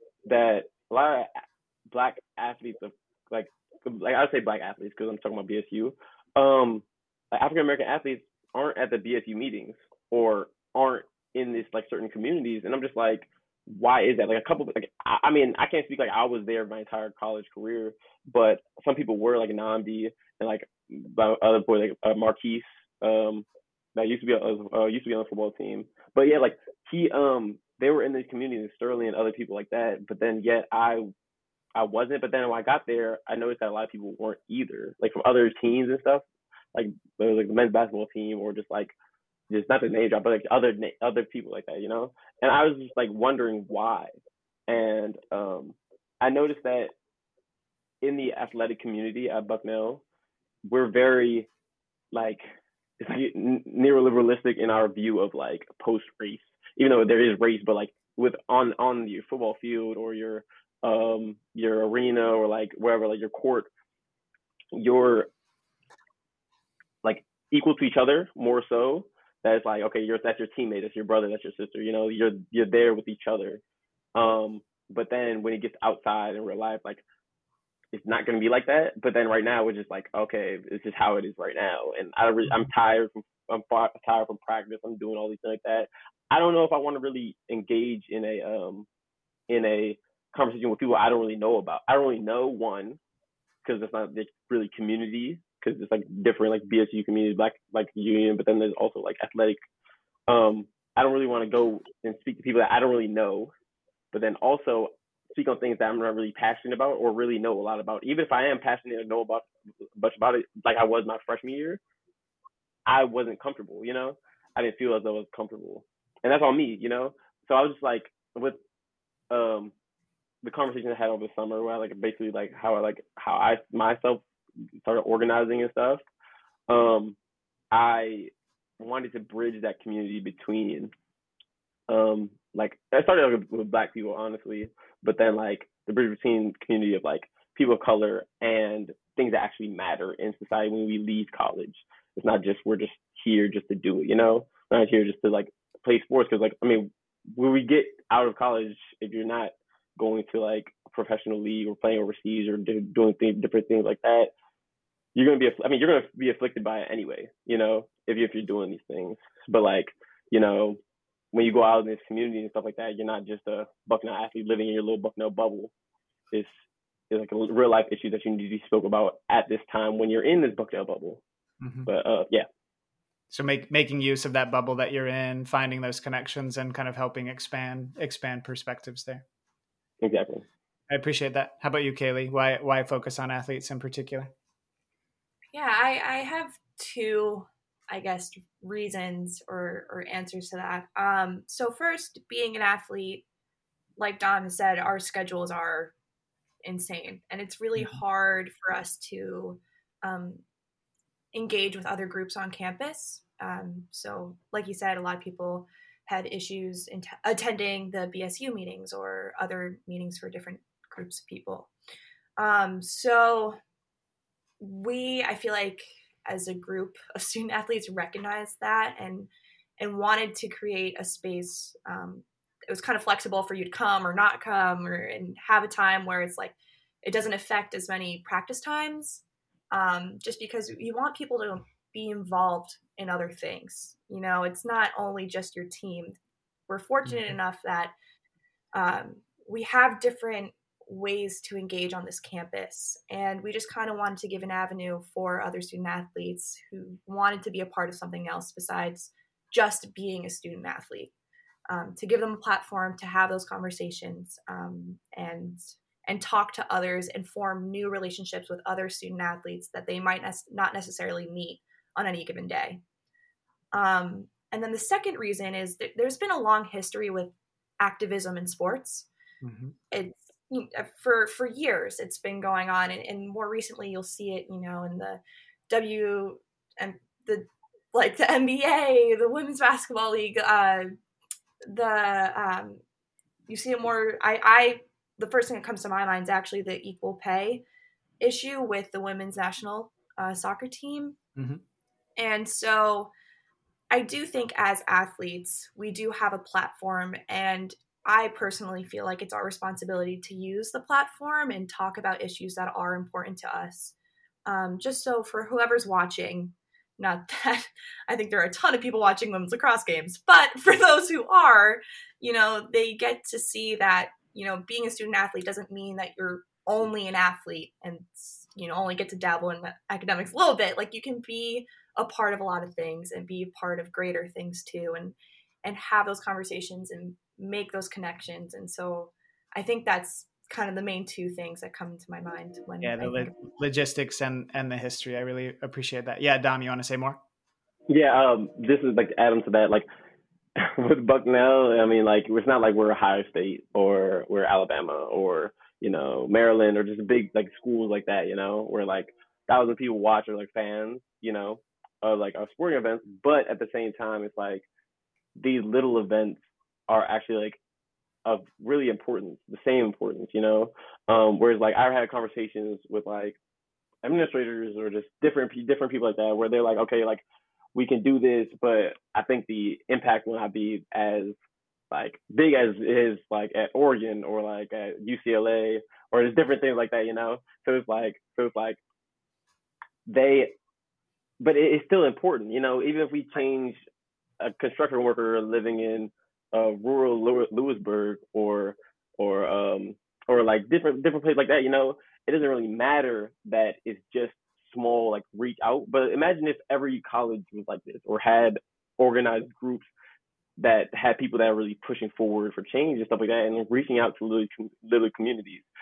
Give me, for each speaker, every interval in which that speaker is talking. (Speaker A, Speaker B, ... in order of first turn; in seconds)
Speaker A: 0.2-1.3, 1.9-23.4, 23.9-31.1, 31.8-38.9, 39.5-44.1, 44.7-46.9, 48.0-50.0, 50.7-51.5, 52.1-52.4, 53.0-63.7, 64.7-65.3, 67.0-73.6, 74.1-77.0, 77.9-88.8, 89.5-93.0, 93.6-99.6, 100.3-103.5, 104.1-111.8, 112.9-118.6, 119.3-119.7, 120.4-124.2, 124.8-126.0, 126.7-127.2, 127.7-130.9, 131.9-154.3, 155.1-160.8, 161.3-165.7, 167.1-171.2, 171.8-172.4, 180.0-180.4, 337.9-339.8, 340.6-354.6, 355.4-357.6, 358.2-363.4, 364.0-367.2, 367.7-371.3, 371.9-378.8, 380.1-380.5, 381.4-383.8, 384.4-399.9, 400.6-405.7
Speaker B: 171.6-171.9, 173.3-179.2, 180.9-184.3, 237.1-237.3, 269.4-269.7, 291.4-291.6, 332.8-337.2
Speaker C: 185.5-193.2, 194.0-195.9, 196.6-200.4, 201.3-211.7, 212.4-213.6, 214.6-236.2, 236.7-237.9, 238.7-251.1, 251.7-262.8, 263.7-269.1, 269.9-280.9, 281.6-282.8, 283.5-287.6, 288.2-291.1, 292.2-293.1, 293.9-303.9, 304.4-333.3